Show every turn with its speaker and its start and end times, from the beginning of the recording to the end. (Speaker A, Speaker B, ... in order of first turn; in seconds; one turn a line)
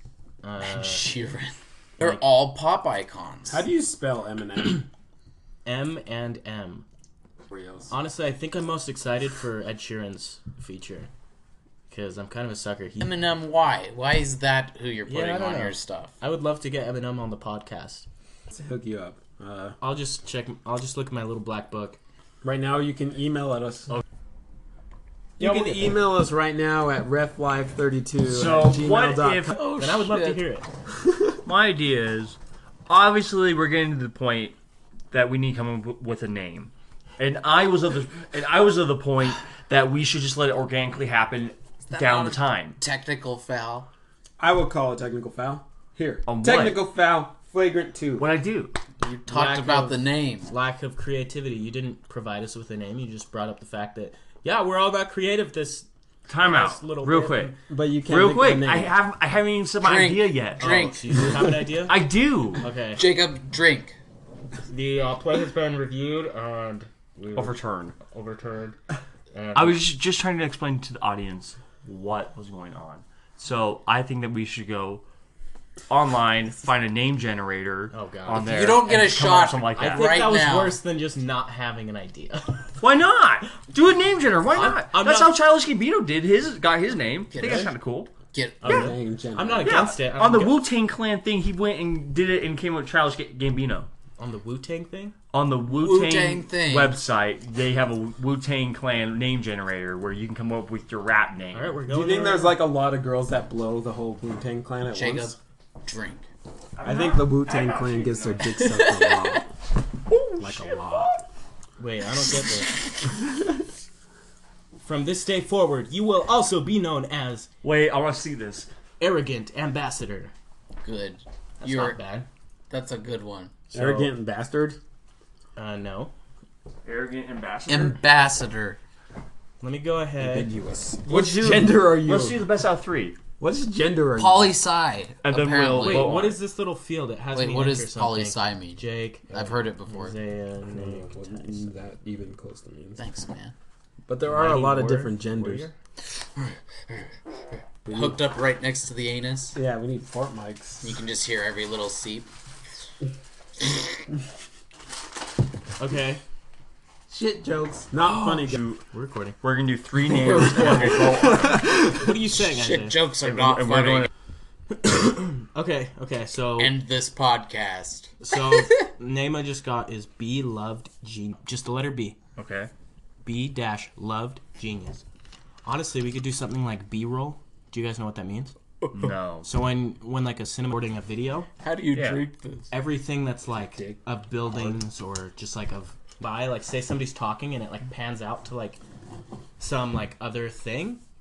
Speaker A: 0.4-1.1
Speaker B: 0.6-3.6
Speaker C: 3.5-4.9
Speaker A: 5.6-6.8
Speaker C: 7.5-7.9
Speaker A: 7.9-11.1
Speaker A: 11.9-13.1
Speaker B: 13.0-16.1
Speaker A: 15.1-18.0
Speaker C: 18.5-19.8
Speaker A: 19.8-22.0
Speaker C: 22.4-23.9
Speaker C: 25.4-29.5
Speaker A: 25.4-26.0
Speaker D: 28.2-29.7
Speaker B: 29.5-30.4
Speaker A: 29.7-30.7
Speaker D: 31.4-32.4
Speaker D: 32.9-34.6
Speaker D: 35.1-42.8
Speaker B: 41.9-43.9
Speaker C: 44.4-48.3
Speaker D: 46.3-46.8
Speaker D: 48.2-48.8
Speaker A: 49.0-55.9
Speaker B: 49.2-50.5
Speaker D: 56.3-60.9
Speaker A: 56.4-57.5
Speaker C: 57.7-58.9
Speaker B: 59.8-61.6
Speaker A: 60.6-62.0
Speaker D: 61.9-62.6
Speaker A: 62.6-63.0
Speaker B: 62.9-64.0
Speaker A: 64.7-68.8
Speaker D: 67.3-68.0
Speaker A: 69.3-69.8
Speaker D: 69.5-75.0
Speaker D: 75.9-80.1
Speaker A: 77.9-78.5
Speaker B: 78.3-80.8
Speaker A: 79.8-82.6
Speaker D: 82.8-88.1
Speaker A: 84.5-85.3
Speaker B: 87.3-87.7
Speaker B: 88.3-89.0
Speaker A: 88.6-90.6
Speaker C: 88.6-89.8
Speaker D: 89.6-93.9
Speaker A: 94.2-95.1
Speaker D: 95.3-101.8
Speaker B: 95.8-97.0
Speaker A: 101.5-102.5
Speaker C: 101.9-105.4
Speaker B: 104.9-106.2
Speaker D: 106.8-108.9
Speaker C: 106.8-109.5
Speaker B: 108.8-109.4
Speaker D: 110.1-111.2
Speaker C: 110.4-111.1
Speaker A: 111.8-112.8
Speaker A: 114.8-117.5
Speaker D: 117.6-118.7
Speaker A: 119.0-120.3
Speaker B: 120.8-122.0
Speaker A: 121.6-122.3
Speaker B: 122.7-123.6
Speaker A: 123.7-124.1
Speaker C: 123.7-124.8
Speaker A: 125.6-126.1
Speaker D: 126.8-128.0
Speaker B: 127.7-128.8
Speaker A: 129.6-130.5
Speaker C: 130.2-132.5
Speaker D: 131.1-133.2
Speaker C: 133.4-134.6
Speaker B: 134.2-136.3
Speaker D: 135.2-136.4
Speaker A: 135.8-141.6
Speaker B: 137.3-140.2
Speaker C: 140.7-143.0
Speaker B: 143.0-143.5
Speaker C: 144.1-145.7
Speaker A: 144.2-145.7
Speaker B: 146.3-147.1
Speaker C: 147.9-148.2
Speaker B: 147.9-149.6
Speaker C: 149.5-151.0
Speaker B: 150.8-152.3
Speaker A: 155.8-156.2
Speaker B: 157.1-157.8
Speaker C: 157.8-158.7
Speaker A: 158.0-159.4
Speaker D: 158.3-158.8
Speaker D: 159.4-161.8
Speaker C: 160.6-161.8
Speaker A: 161.8-163.0
Speaker B: 162.2-164.1
Speaker D: 163.2-164.1
Speaker A: 164.7-166.8
Speaker B: 166.6-168.2
Speaker A: 168.2-172.2
Speaker D: 172.4-172.7
Speaker A: 173.2-175.0
Speaker A: 175.6-178.5
Speaker D: 178.9-179.5
Speaker A: 179.4-181.5
Speaker B: 181.6-182.7
Speaker D: 181.9-182.2
Speaker A: 182.7-188.8
Speaker C: 183.7-184.8
Speaker A: 189.6-191.0